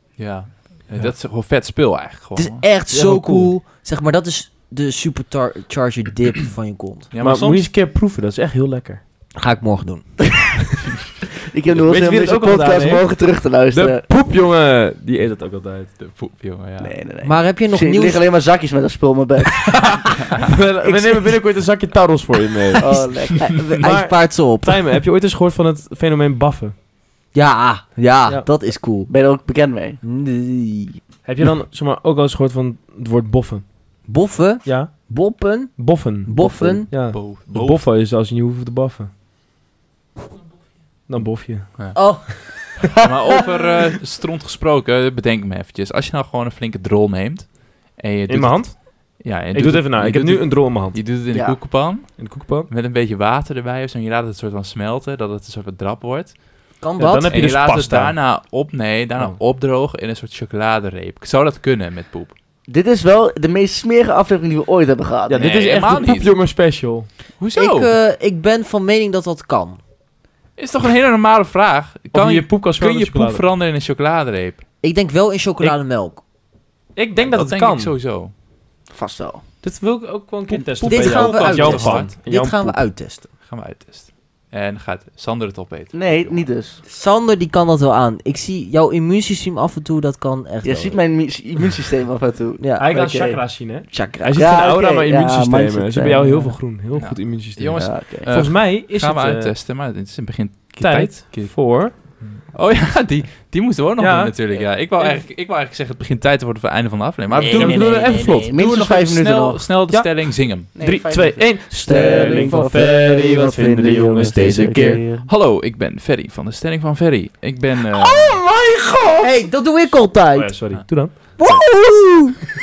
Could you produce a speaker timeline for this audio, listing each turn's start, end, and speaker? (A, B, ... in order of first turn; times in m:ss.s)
0:00.2-0:02.6 A
0:02.4-0:07.1 B
0:02.9-0:03.5 C
0:07.1-0:07.7 A
0:07.2-0:09.0 C
0:09.4-0:10.4 B
0:11.5-0:14.0 D
0:11.7-0:13.1 C
0:13.7-0:16.0 C
0:16.0-0:16.9 A
0:16.8-0:20.1 D
0:17.2-0:18.2 B
0:19.7-0:22.9 C
0:20.8-0:21.3 D
0:22.8-0:23.9 D
0:22.8-0:24.8 B
0:23.8-0:26.7 C
0:27.3-0:29.1 B
0:29.1-0:30.0 D
0:30.0-0:31.0 B
0:31.2-0:33.6 C
0:34.1-0:36.9 B
0:34.6-0:34.9 C
0:35.8-0:39.1 C
0:37.0-0:37.9 A
0:41.1-0:42.0 C
0:41.9-0:42.8 B
0:43.0-0:56.7 A
0:48.3-0:51.0 C
0:51.3-0:51.6 D
0:52.2-0:52.7 C
0:56.8-0:57.4 B
0:57.0-0:58.2 C
0:57.3-1:02.3 A
1:02.7-1:05.4 D
1:05.3-1:07.1 C
1:05.4-1:06.4 A
1:07.4-1:07.9 A
1:07.5-1:09.8 B
1:10.6-1:14.6 A
1:12.1-1:13.4 C
1:14.8-1:16.2 B
1:17.0-1:17.9 C
1:17.2-1:18.3 A
1:18.9-1:19.4 D
1:19.6-1:22.8 C
1:20.5-1:22.1 A
1:20.9-1:23.3 B
1:23.4-1:26.4 A
1:25.9-1:26.8 D
1:26.8-1:31.0 B
1:30.6-1:33.4 D
1:32.6-1:32.9 B
1:32.8-1:39.5 C
1:33.9-1:34.4 B
1:34.2-1:36.5 D
1:36.9-1:50.7 A
1:37.7-1:38.3 D
1:40.8-1:41.9 C
1:44.0-1:44.3 C
1:47.3-1:49.6 D
1:47.5-1:48.5 C
1:49.9-1:55.0 C
1:50.8-1:55.2 D
1:55.2-1:58.4 A
1:58.5-1:59.2 C
1:59.2-2:00.5 B
2:00.3-2:01.2 C
2:01.4-2:02.4 B